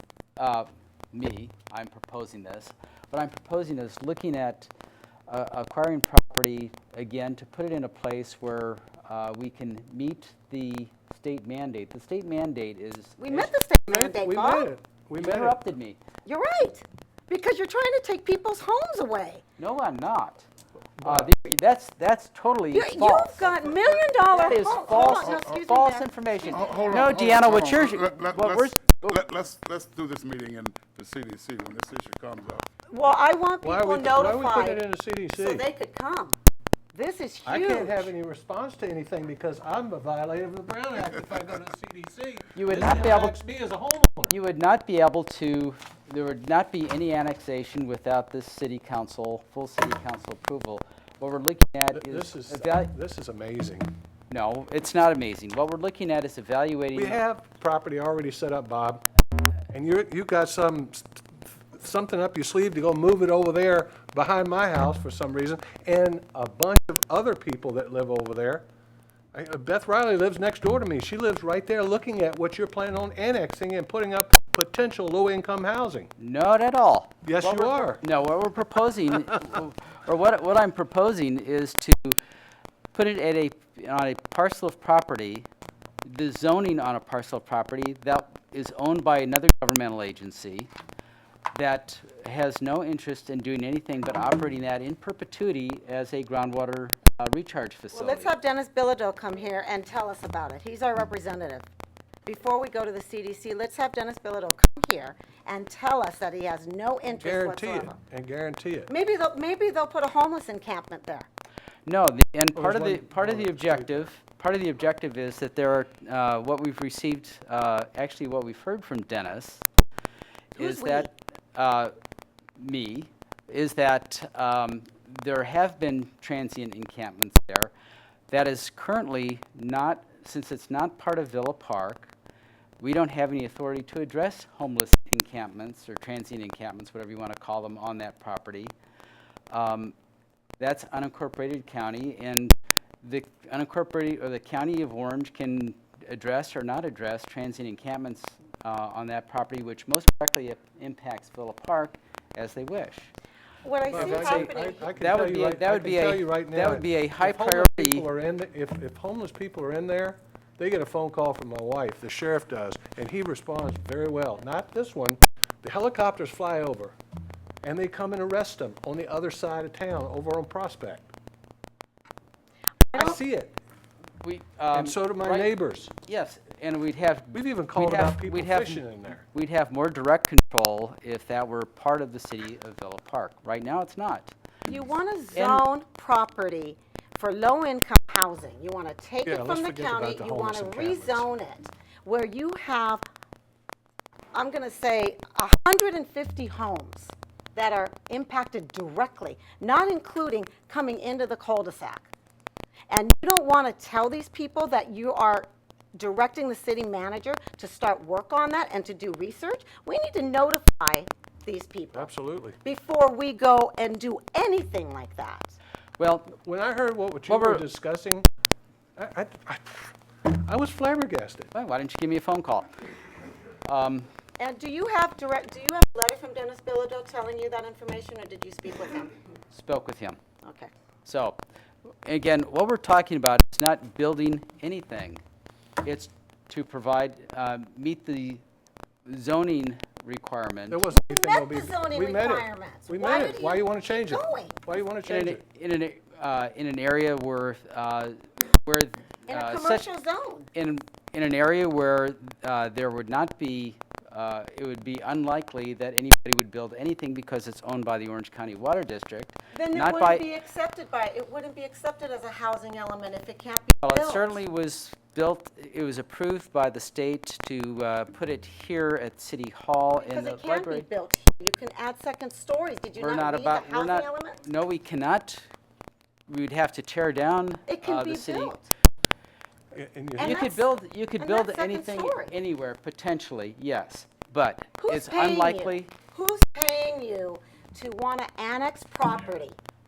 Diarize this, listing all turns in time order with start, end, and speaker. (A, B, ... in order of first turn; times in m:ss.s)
0:00.4-0:04.7 A
0:05.3-0:13.5 A
0:13.2-0:14.7 B
0:13.9-0:15.6 C
0:15.2-0:16.0 A
0:16.2-0:19.4 B
0:19.6-0:20.5 A
0:21.0-0:21.3 C
0:21.0-0:23.7 A
0:22.7-0:27.1 B
0:24.3-0:29.2 A
0:24.8-0:25.5 D
0:26.5-0:32.6 D
0:32.9-0:34.8 B
0:33.6-0:35.6 C
0:35.4-0:36.4 B
0:36.9-0:38.1 B
0:37.4-0:44.4 C
0:42.6-0:43.4 A
0:44.3-0:52.9 A
0:51.9-0:53.9 C
0:54.3-0:57.2 A
0:56.9-0:59.0 C
0:59.7-1:08.6 C
1:09.3-1:16.1 C
1:16.2-1:22.2 A
1:17.2-1:18.0 C
1:22.9-1:25.5 A
1:26.0-1:30.7 A
1:31.5-1:38.3 A
1:37.9-1:41.6 B
1:42.2-1:48.0 B
1:47.2-1:48.9 C
1:48.9-1:51.3 B
1:51.8-1:59.6 A
1:52.5-1:54.1 C
2:00.5-2:01.9 A
2:00.6-2:01.1 B
2:02.6-2:07.7 A
2:08.3-2:12.1 A
2:12.8-2:18.7 A
2:19.5-2:19.9 A
2:20.6-2:33.1 A
2:33.6-2:34.9 B
2:33.9-2:38.1 A
2:33.9-2:47.0 C
2:47.6-2:51.1 C
2:52.9-2:53.2 B
2:52.9-2:53.6 C
2:54.2-3:04.3 A
2:54.7-2:55.9 C
2:57.3-2:59.2 C
3:04.7-3:13.0 B
3:05.3-3:05.6 A
3:09.2-3:11.3 C
3:14.3-3:22.1 B
3:22.9-3:32.1 B
3:31.9-3:32.6 C
3:32.6-3:35.6 B
3:36.0-3:36.3 A
3:36.3-3:38.2 C
3:37.3-3:37.6 A
3:39.0-3:41.5 C
3:41.5-3:42.7 A
3:43.6-3:44.1 A
3:44.4-3:49.1 B
3:49.5-3:50.2 A
3:50.4-3:50.7 B
3:51.0-3:51.4 A
3:52.0-3:55.2 A
3:55.8-3:58.4 A
3:59.0-4:00.8 A
4:00.7-4:05.4 C
4:00.9-4:04.6 B
4:05.0-4:09.8 A
4:09.3-4:10.5 B
4:10.5-4:20.2 A
4:19.5-4:24.4 B
4:23.8-4:30.8 A
4:30.0-4:34.4 B
4:33.0-4:35.4 A
4:36.3-4:38.6 A
4:37.7-4:38.7 B
4:39.7-4:40.4 C
4:40.2-4:42.3 B
4:40.2-4:45.9 A
4:44.8-4:49.6 B